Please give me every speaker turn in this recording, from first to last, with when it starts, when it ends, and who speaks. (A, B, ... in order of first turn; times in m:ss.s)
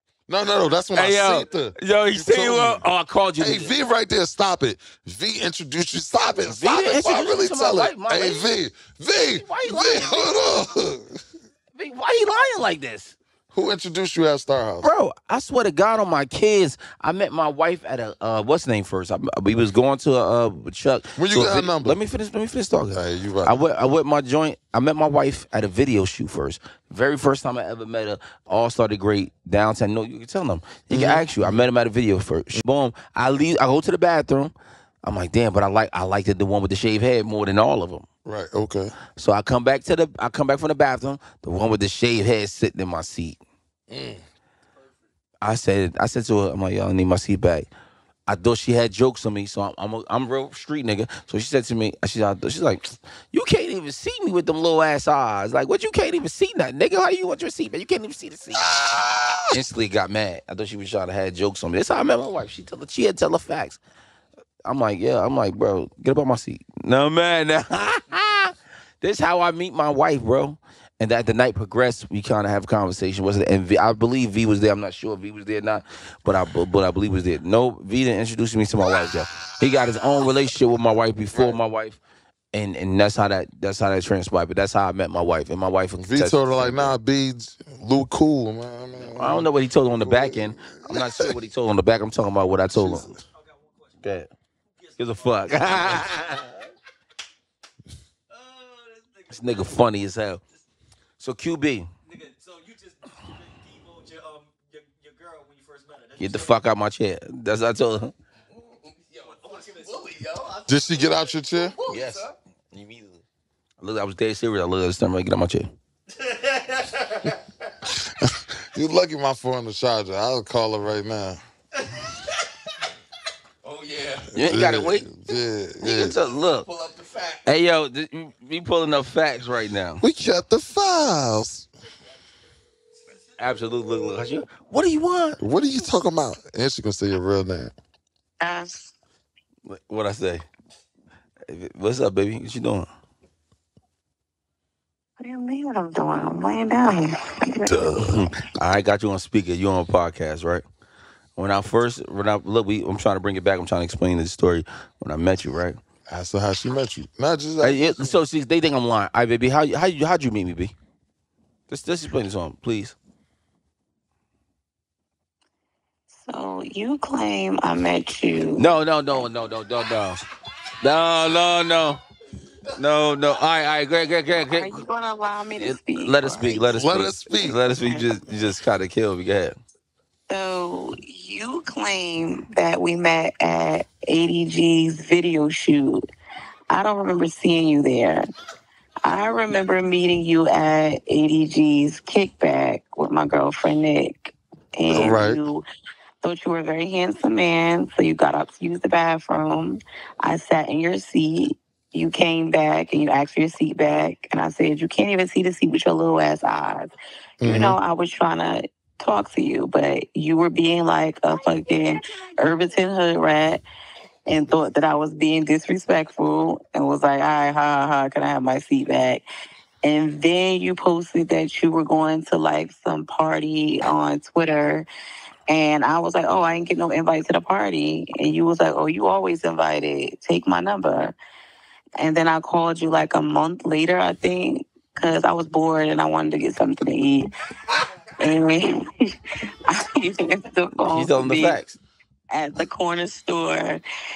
0:00.3-0:02.8 A
0:00.9-0:03.8 B
0:03.4-0:11.2 A
0:06.4-0:08.5 B
0:09.3-0:10.4 B
0:11.8-0:13.2 B
0:13.5-0:14.9 A
0:14.8-0:38.1 B
0:21.2-0:22.0 A
0:22.9-0:23.6 A
0:30.9-0:31.7 A
0:38.2-0:38.9 A
0:39.2-0:43.4 B
0:43.9-0:44.2 A
0:45.4-0:47.7 B
0:48.3-0:58.7 B
0:58.6-0:59.6 A
0:59.5-1:03.8 B
1:04.6-1:22.0 B
1:22.5-1:27.0 B
1:26.0-1:29.5 A
1:29.1-1:33.1 B
1:30.0-1:31.4 A
1:32.7-1:33.2 A
1:34.0-1:34.3 B
1:35.0-1:36.6 B
1:38.4-1:39.2 C
1:39.3-1:40.4 B
1:41.2-1:41.9 B
1:42.3-1:46.2 C
1:46.2-1:48.1 B
1:49.1-1:50.6 C
1:50.6-1:51.8 A
1:51.8-1:52.3 C
1:51.8-1:53.2 B
1:53.8-1:55.7 B
1:57.9-2:01.4 A
2:03.7-2:04.2 C
2:04.3-2:06.2 A
2:04.3-2:05.2 B
2:05.8-2:06.7 B
2:06.8-2:07.4 C
2:07.4-2:10.0 B
2:10.0-2:11.7 A
2:13.4-2:15.4 B
2:15.4-2:17.7 A
2:18.4-2:18.9 D
2:19.7-2:20.4 B
2:21.5-2:22.9 B
2:25.2-2:27.8 D
2:27.7-2:28.3 A
2:28.0-2:30.6 B
2:31.4-2:35.8 B
2:36.1-2:38.2 A
2:37.6-2:40.7 B
2:41.7-2:43.0 B
2:46.1-2:49.3 D
2:48.6-2:50.2 B
2:50.8-2:52.0 B
2:52.7-2:54.8 B
2:54.4-2:56.7 D
2:55.6-2:59.6 B
2:56.7-2:57.6 A
2:57.7-2:58.1 D
3:00.3-3:06.0 D
3:06.7-3:08.3 D
3:09.0-3:15.6 D
3:14.9-3:15.4 A
3:16.2-3:26.9 D
3:27.4-3:27.8 A
3:27.4-3:33.6 D
3:34.3-3:39.2 D
3:39.8-3:44.9 D
3:45.5-3:51.2 D
3:52.0-3:57.3 D
3:58.2-3:58.9 D
3:59.7-4:01.6 D
4:00.8-4:01.8 B
4:02.3-4:03.8 D